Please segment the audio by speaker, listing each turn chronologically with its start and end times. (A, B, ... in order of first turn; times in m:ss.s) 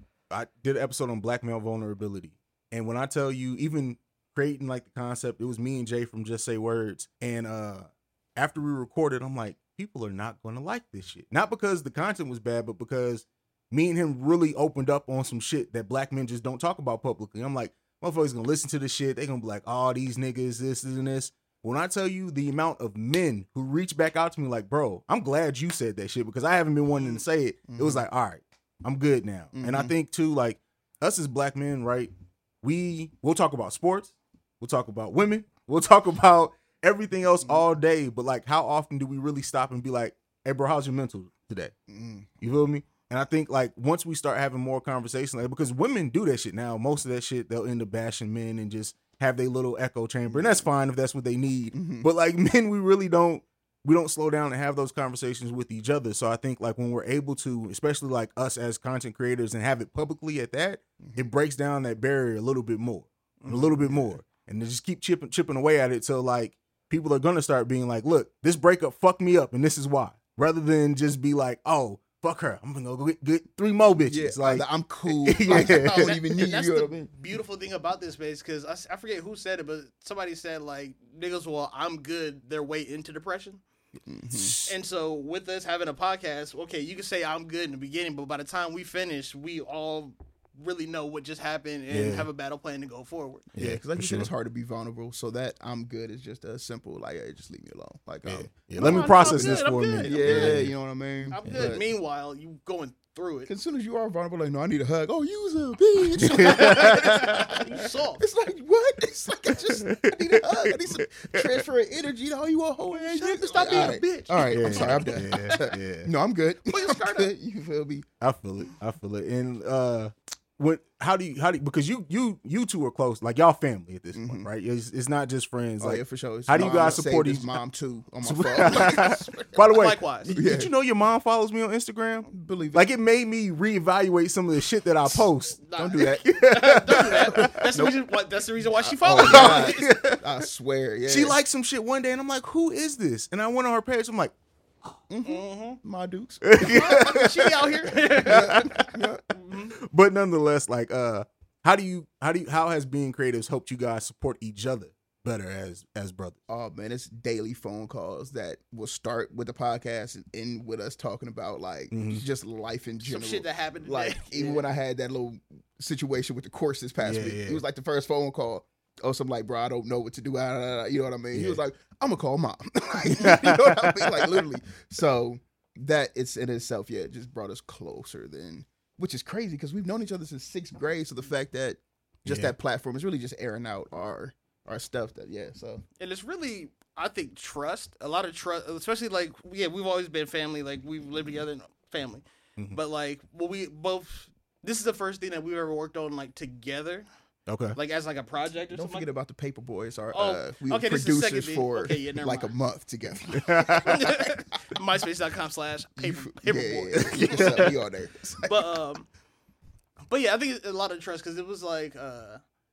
0:00.3-0:41.7 A
0:27.0-0:27.2 B
0:27.7-0:28.0 C
0:29.5-0:29.9 C
0:41.9-0:42.3 C
0:42.4-1:16.2 A
0:50.3-0:50.7 C
0:51.7-0:52.1 C
1:01.0-1:01.3 C
1:03.4-1:03.9 B
1:14.0-1:17.1 C
1:15.5-1:23.6 B
1:24.1-1:24.6 C
1:24.3-1:24.7 A
1:24.7-1:33.5 B
1:31.9-1:32.3 A
1:33.6-1:34.3 A
1:33.6-1:41.8 C
1:38.3-1:40.7 A
1:38.8-1:40.7 B
1:41.3-1:43.5 B
1:41.4-1:41.7 A
1:43.5-1:58.1 C
1:46.3-1:48.2 B
1:46.4-1:47.3 A
1:49.8-1:51.4 A
1:52.9-1:55.7 B
1:53.6-1:56.1 A
1:56.7-1:57.3 B
1:58.2-2:07.6 A
2:04.1-2:04.5 C
2:05.8-2:09.6 C
2:06.6-2:06.9 B
2:08.2-2:15.6 A
2:08.6-2:10.3 B
2:10.3-2:10.7 C
2:12.3-2:12.9 C
2:15.6-2:19.9 B
2:15.8-2:18.0 C
2:16.2-2:17.6 A
2:18.6-2:21.4 C
2:19.2-2:20.2 A
2:21.1-2:24.3 A
2:25.1-2:27.2 C
2:25.2-2:25.8 B
2:26.4-2:27.4 A
2:26.6-2:28.7 B
2:28.2-2:29.2 C
2:28.2-2:29.0 A
2:29.3-2:29.7 B
2:29.8-2:36.4 A
2:36.5-3:05.8 C
2:41.9-2:42.2 A
2:43.0-2:44.6 B
2:47.0-2:47.6 A
2:51.3-2:51.6 A
2:53.2-2:54.2 A
3:02.2-3:02.5 A
3:06.0-3:17.1 B
3:17.5-3:17.8 A
3:17.8-3:19.1 B
3:18.7-3:24.3 C
3:20.1-3:22.5 B
3:23.4-3:23.8 A
3:23.9-3:27.7 B
3:26.0-3:28.8 C
3:27.2-3:27.7 A
3:28.4-3:29.1 B
3:30.1-3:32.4 B